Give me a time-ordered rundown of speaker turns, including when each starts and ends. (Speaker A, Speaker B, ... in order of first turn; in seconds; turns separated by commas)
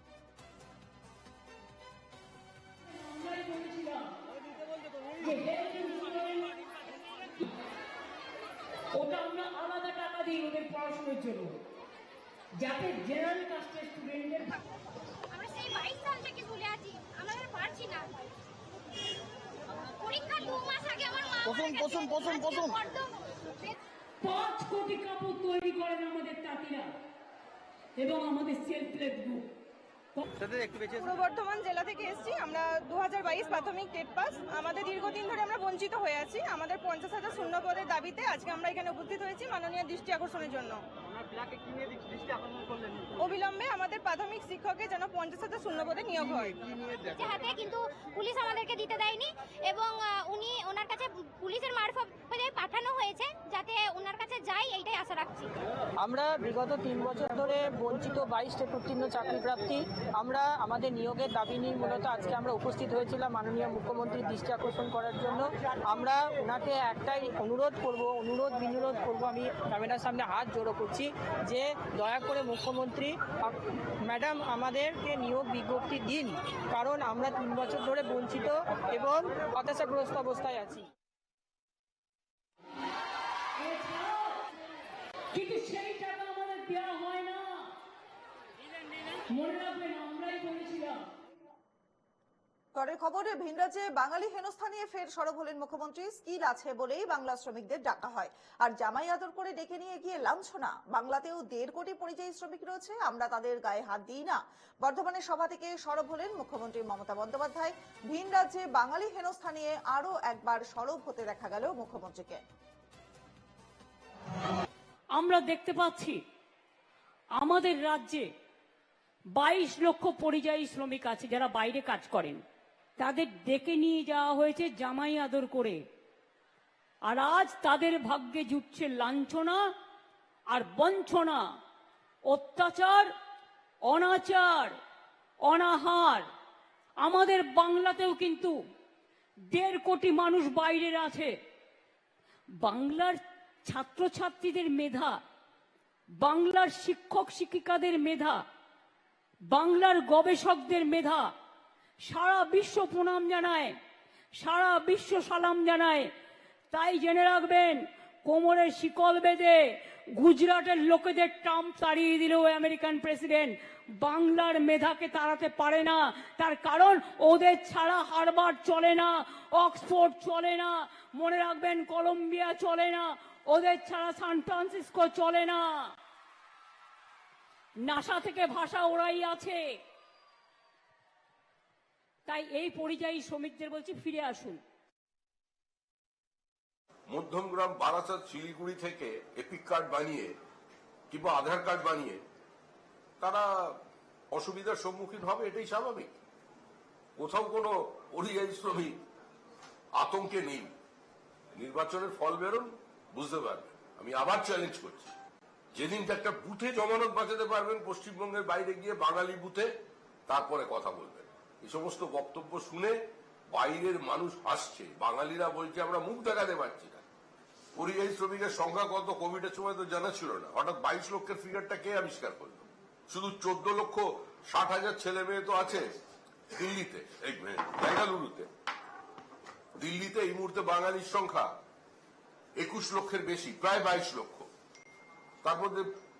Speaker A: 2.9-4.1, Speaker A: 5.2-6.5, Speaker A: 8.9-11.5, Speaker A: 12.6-14.6, Speaker B: 15.3-18.1, Speaker B: 20.0-23.7, Speaker A: 24.2-26.9, Speaker A: 28.0-29.5, Speaker C: 30.8-40.8, Speaker C: 43.2-46.6, Speaker B: 47.1-55.5, Speaker D: 56.0-80.9, Speaker A: 83.6-84.4, Speaker A: 85.3-87.7, Speaker A: 89.3-91.0, Speaker E: 92.8-112.4, Speaker A: 115.2-116.2, Speaker A: 117.4-118.3, Speaker A: 119.4-122.4, Speaker A: 123.0-125.8, Speaker A: 127.1-129.6, Speaker A: 130.5-131.4, Speaker A: 132.3-133.1, Speaker A: 133.9-134.7, Speaker A: 135.4-136.3, Speaker A: 137.0-138.6, Speaker A: 139.5-141.3, Speaker A: 142.6-145.2, Speaker A: 146.2-148.4, Speaker A: 149.5-151.3, Speaker A: 152.1-153.8, Speaker A: 154.4-156.1, Speaker A: 156.7-175.9, Speaker A: 177.8-179.6, Speaker A: 182.3-184.6, Speaker F: 187.1-190.3, Speaker F: 191.1-192.2, Speaker F: 193.2-193.8, Speaker F: 194.3-196.1, Speaker F: 197.2-199.0, Speaker F: 200.0-200.7, Speaker F: 201.6-205.1, Speaker F: 205.8-209.7, Speaker F: 210.3-213.0, Speaker F: 213.5-217.1, Speaker F: 217.8-225.8, Speaker F: 226.5-228.5, Speaker F: 229.8-231.5, Speaker F: 232.6-234.5, Speaker F: 235.4-235.9